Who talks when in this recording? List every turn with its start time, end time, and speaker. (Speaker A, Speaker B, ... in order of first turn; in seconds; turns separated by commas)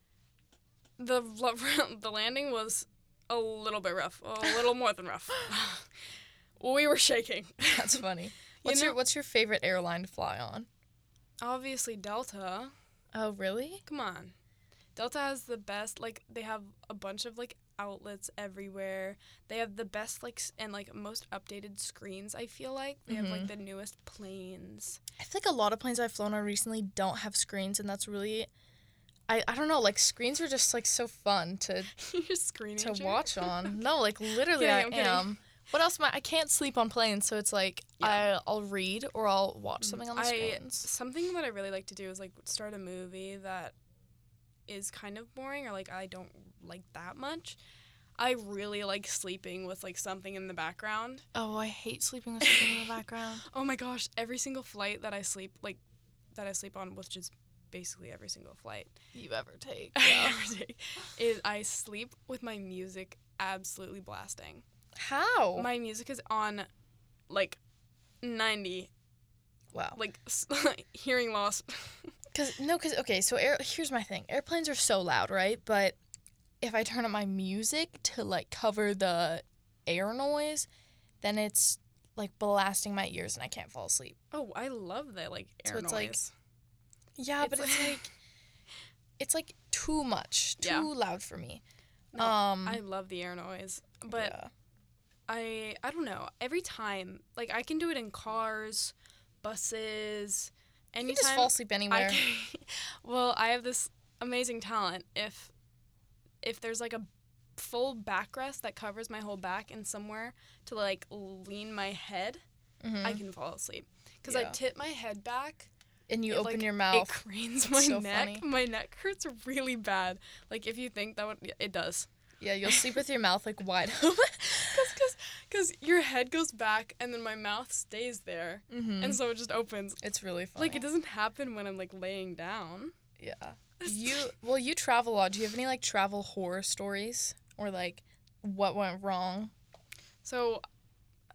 Speaker A: 1.0-5.9, Speaker A: 6.6-8.0, Speaker B: 7.7-10.7, Speaker A: 8.6-9.0, Speaker A: 11.4-12.7, Speaker B: 13.1-13.8, Speaker A: 13.8-14.3, Speaker A: 14.9-25.0, Speaker B: 23.1-23.5, Speaker B: 25.2-28.5, Speaker B: 29.3-31.9, Speaker A: 31.9-33.8, Speaker B: 32.8-40.9, Speaker A: 34.4-35.3, Speaker A: 38.0-38.2, Speaker A: 39.8-43.7, Speaker A: 44.7-47.6, Speaker A: 48.2-51.2, Speaker B: 51.3-53.4, Speaker A: 52.4-55.8, Speaker A: 56.3-58.9, Speaker B: 59.1-60.4, Speaker A: 59.9-64.6, Speaker B: 65.0-65.7, Speaker A: 65.5-66.7, Speaker A: 67.3-67.6, Speaker A: 68.2-68.9, Speaker B: 69.7-70.0, Speaker A: 69.9-72.1, Speaker B: 72.3-76.0, Speaker B: 76.6-80.7, Speaker B: 81.2-84.2, Speaker A: 84.3-86.3, Speaker B: 85.7-86.2, Speaker B: 87.2-88.1, Speaker A: 87.4-88.0, Speaker B: 89.2-91.6, Speaker A: 90.6-90.9, Speaker A: 92.1-94.3, Speaker B: 92.2-92.8, Speaker B: 94.1-94.5, Speaker A: 95.3-105.5, Speaker B: 101.0-102.2, Speaker A: 106.4-112.4, Speaker B: 112.8-113.2, Speaker A: 113.0-115.7, Speaker B: 114.3-114.6, Speaker B: 116.1-117.2, Speaker A: 116.3-122.1, Speaker B: 117.7-118.5, Speaker B: 122.4-124.9, Speaker A: 122.7-123.0, Speaker A: 124.7-130.0, Speaker B: 128.7-129.2, Speaker B: 130.0-130.8, Speaker A: 130.6-132.9, Speaker B: 133.2-139.5, Speaker A: 133.8-134.2, Speaker A: 140.2-140.6